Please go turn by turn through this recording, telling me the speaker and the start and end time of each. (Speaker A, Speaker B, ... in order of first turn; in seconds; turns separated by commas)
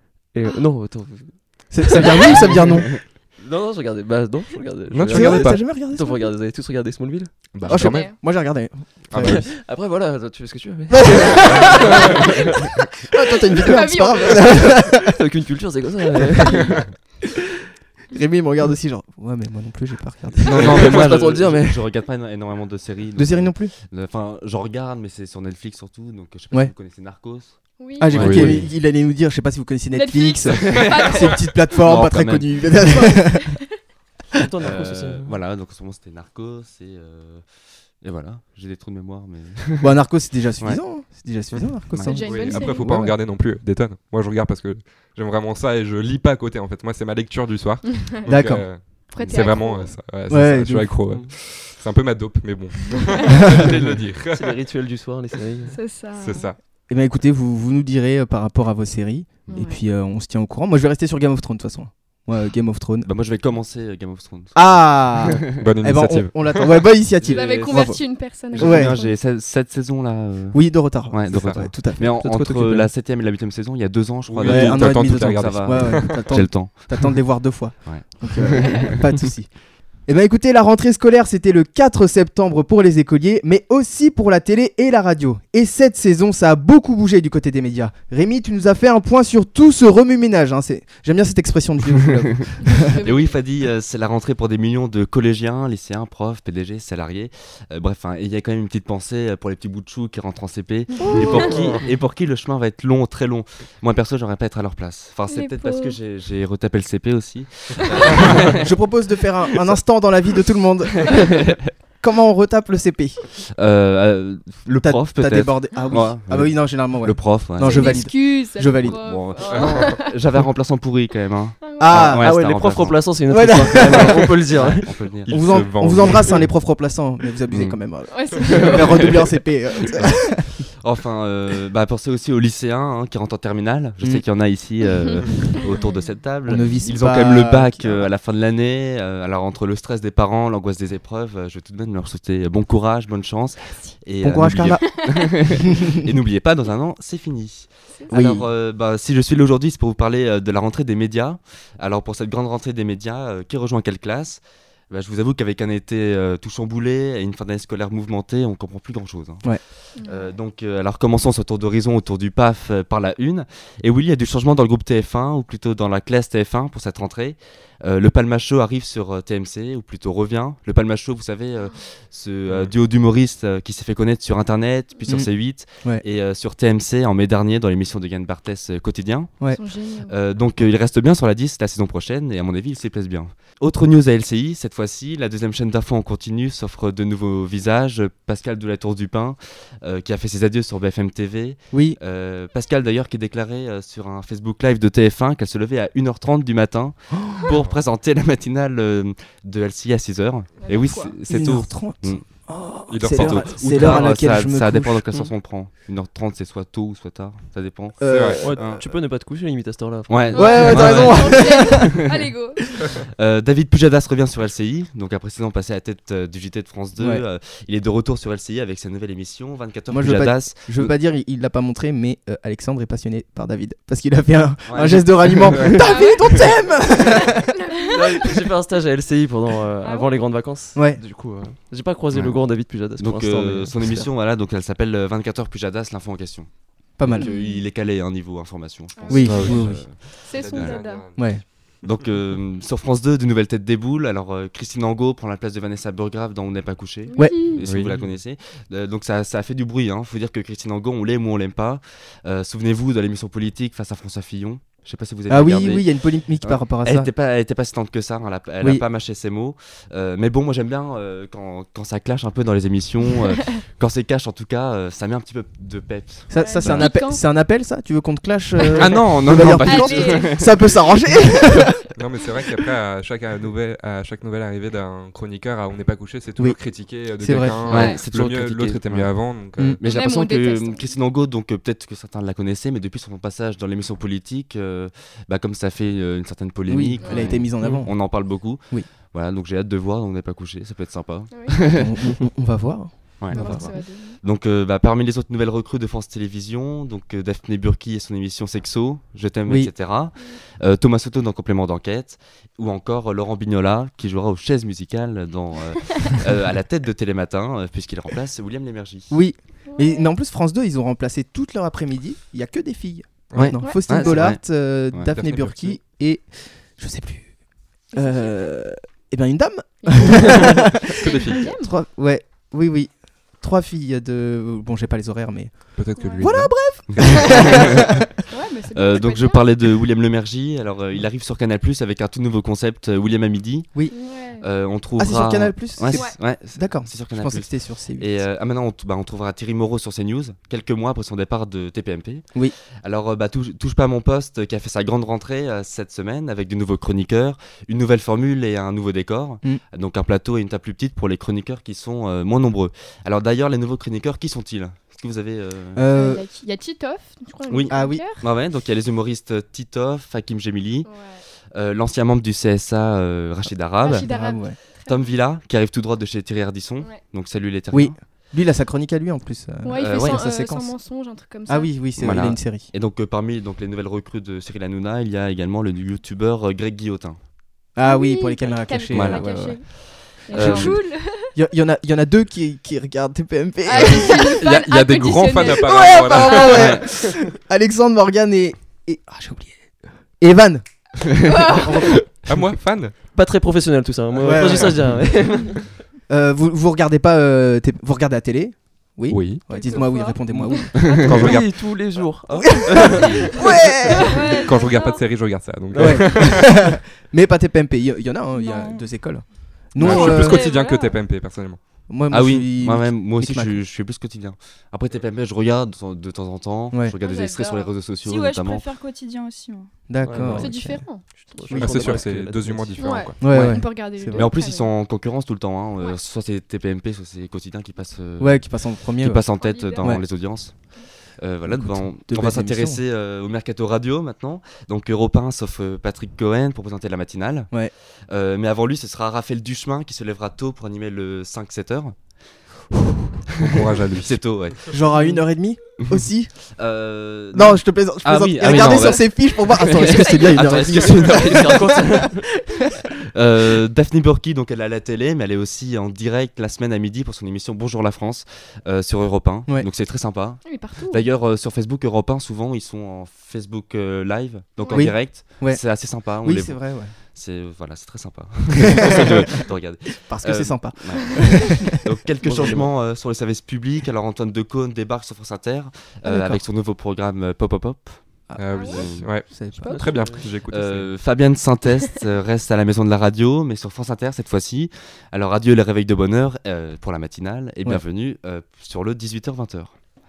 Speaker A: 0.3-7.8, Speaker B: 1.7-3.1, Speaker C: 4.9-5.7, Speaker B: 5.1-6.3, Speaker C: 7.5-8.1, Speaker D: 7.7-8.2, Speaker B: 7.7-9.5, Speaker C: 9.1-9.5, Speaker A: 9.2-12.7, Speaker B: 10.9-12.1, Speaker B: 13.1-15.1, Speaker D: 13.6-14.8, Speaker A: 14.7-16.8, Speaker B: 18.1-21.0, Speaker A: 20.4-21.8, Speaker E: 20.5-28.7, Speaker B: 23.2-23.7, Speaker D: 27.8-28.2, Speaker B: 28.0-33.6, Speaker C: 28.1-28.6, Speaker D: 29.9-31.5, Speaker E: 31.8-32.5, Speaker D: 32.8-33.7, Speaker A: 34.4-35.3, Speaker E: 34.6-37.5, Speaker E: 38.0-39.9, Speaker B: 39.8-43.1, Speaker E: 41.5-42.2, Speaker D: 42.0-43.0, Speaker C: 42.2-54.5, Speaker B: 48.3-48.7, Speaker D: 49.1-49.9, Speaker B: 50.3-51.0, Speaker A: 51.1-51.3, Speaker A: 54.3-55.9, Speaker D: 55.7-56.5, Speaker C: 56.2-56.6, Speaker B: 56.9-63.1, Speaker D: 59.5-59.8, Speaker E: 63.0-65.5, Speaker B: 64.5-68.0, Speaker C: 65.6-66.9, Speaker E: 67.2-68.0, Speaker D: 67.3-69.2, Speaker E: 68.5-77.1, Speaker B: 68.5-69.0, Speaker B: 70.5-72.9, Speaker C: 71.3-71.6, Speaker C: 74.3-76.3, Speaker B: 74.4-79.5, Speaker E: 77.8-79.2, Speaker B: 80.0-93.0, Speaker D: 92.8-93.4, Speaker E: 93.0-108.7, Speaker D: 101.0-101.7, Speaker C: 101.5-101.8, Speaker D: 105.3-106.0, Speaker B: 108.2-113.2, Speaker E: 111.1-111.5, Speaker E: 113.5-123.2, Speaker B: 114.7-119.2, Speaker D: 117.6-120.1, Speaker C: 119.5-119.9, Speaker D: 121.6-122.0, Speaker B: 121.8-122.5, Speaker A: 121.9-125.1, Speaker B: 123.3-124.3, Speaker E: 123.7-126.4, Speaker C: 125.3-126.5, Speaker B: 125.3-130.4, Speaker E: 127.5-127.8, Speaker D: 128.1-129.2, Speaker E: 128.5-129.2, Speaker E: 130.6-179.4, Speaker B: 136.5-138.1, Speaker B: 144.2-145.1, Speaker B: 148.1-148.5, Speaker D: 160.0-160.3, Speaker B: 175.1-176.0, Speaker D: 179.5-180.1, Speaker E: 180.1-202.3, Speaker B: 191.7-192.0, Speaker B: 197.1-197.5, Speaker D: 200.6-201.2, Speaker B: 201.3-205.0, Speaker C: 202.9-204.1, Speaker E: 203.0-208.9, Speaker B: 208.0-208.7, Speaker C: 208.1-208.4, Speaker A: 208.4-211.6, Speaker E: 210.1-212.1, Speaker D: 210.3-212.6, Speaker B: 210.3-211.9, Speaker E: 213.1-220.9, Speaker B: 217.0-217.2, Speaker B: 219.9-227.6, Speaker E: 224.7-225.8, Speaker D: 225.8-227.1, Speaker D: 227.6-227.9, Speaker A: 227.9-234.1, Speaker D: 229.8-230.1, Speaker B: 230.7-231.0, Speaker E: 232.1-240.8, Speaker B: 237.0-237.3, Speaker D: 237.2-237.7, Speaker D: 239.0-241.1, Speaker B: 239.1-239.9, Speaker C: 239.1-241.4, Speaker B: 241.2-241.4, Speaker E: 241.8-266.9, Speaker D: 247.1-247.7, Speaker C: 247.6-248.0, Speaker B: 255.3-257.1, Speaker B: 266.3-271.8, Speaker D: 266.4-267.2, Speaker E: 268.8-270.8, Speaker D: 269.6-270.5, Speaker C: 271.9-279.8, Speaker B: 277.1-277.7, Speaker E: 277.7-291.9, Speaker D: 277.7-278.0, Speaker D: 279.8-280.9, Speaker B: 286.7-288.9, Speaker D: 287.0-287.4, Speaker A: 287.6-287.9, Speaker D: 291.3-291.6, Speaker B: 291.7-293.7, Speaker E: 293.2-309.1, Speaker D: 293.3-294.2, Speaker B: 299.5-299.7, Speaker B: 309.1-317.4, Speaker D: 309.7-310.1, Speaker C: 313.3-314.2, Speaker E: 313.4-314.4, Speaker D: 313.6-314.0, Speaker C: 315.1-315.8, Speaker D: 317.9-318.4, Speaker B: 317.9-327.9, Speaker D: 319.8-321.7, Speaker C: 320.9-321.5, Speaker C: 325.8-327.2, Speaker D: 326.0-326.3, Speaker E: 326.9-327.7, Speaker D: 328.3-329.4, Speaker E: 328.8-333.7, Speaker D: 333.9-334.4, Speaker E: 334.4-355.9, Speaker B: 335.0-338.2, Speaker D: 335.9-336.2, Speaker B: 355.8-356.2, Speaker D: 355.9-358.2, Speaker E: 357.5-361.0, Speaker B: 357.7-358.0, Speaker D: 360.9-361.2, Speaker E: 361.5-364.3, Speaker D: 363.8-365.1, Speaker B: 363.9-364.6, Speaker E: 364.9-368.0, Speaker B: 367.7-370.7, Speaker D: 369.6-371.7, Speaker E: 369.8-370.2, Speaker B: 371.5-372.7, Speaker E: 372.0-377.2, Speaker B: 377.8-384.4, Speaker D: 377.8-381.3, Speaker E: 378.9-380.8, Speaker D: 383.6-386.7, Speaker C: 384.1-386.8, Speaker B: 385.4-392.1, Speaker E: 386.5-386.8, Speaker E: 391.0-391.4, Speaker D: 391.2-391.9, Speaker C: 392.3-393.0, Speaker A: 393.1-395.8, Speaker B: 394.2-394.8, Speaker B: 396.1-400.9, Speaker C: 399.1-399.4, Speaker D: 399.5-401.1, Speaker A: 400.3-403.4, Speaker E: 400.8-401.4, Speaker C: 400.9-401.6, Speaker B: 402.4-404.2, Speaker D: 404.1-405.0, Speaker F: 404.2-404.6, Speaker C: 404.4-406.6, Speaker A: 405.7-406.4, Speaker B: 405.8-410.4, Speaker F: 408.3-408.9, Speaker C: 409.8-411.6, Speaker D: 409.8-411.0, Speaker B: 411.9-413.6, Speaker E: 412.1-418.7, Speaker D: 417.0-417.7, Speaker F: 418.0-419.7, Speaker B: 419.9-420.9, Speaker A: 420.0-422.9, Speaker D: 420.3-421.5, Speaker B: 421.5-422.0, Speaker C: 421.5-423.2, Speaker D: 422.8-424.7, Speaker B: 423.2-424.3, Speaker E: 423.3-442.1, Speaker B: 428.2-430.0, Speaker D: 429.4-430.0, Speaker D: 430.5-430.9, Speaker B: 431.5-432.8, Speaker C: 443.4-444.2, Speaker E: 443.5-444.8, Speaker B: 444.7-446.3, Speaker E: 446.6-451.8, Speaker B: 447.3-451.9, Speaker D: 449.8-450.4, Speaker A: 450.5-452.2, Speaker E: 453.1-479.1, Speaker D: 460.4-461.1, Speaker D: 464.6-464.9, Speaker B: 464.7-466.9, Speaker B: 468.9-469.2, Speaker B: 470.0-471.7, Speaker A: 472.2-472.7, Speaker B: 476.1-476.4, Speaker B: 478.3-479.9, Speaker C: 478.4-481.0, Speaker D: 478.5-478.8, Speaker A: 479.6-480.3, Speaker E: 480.5-489.8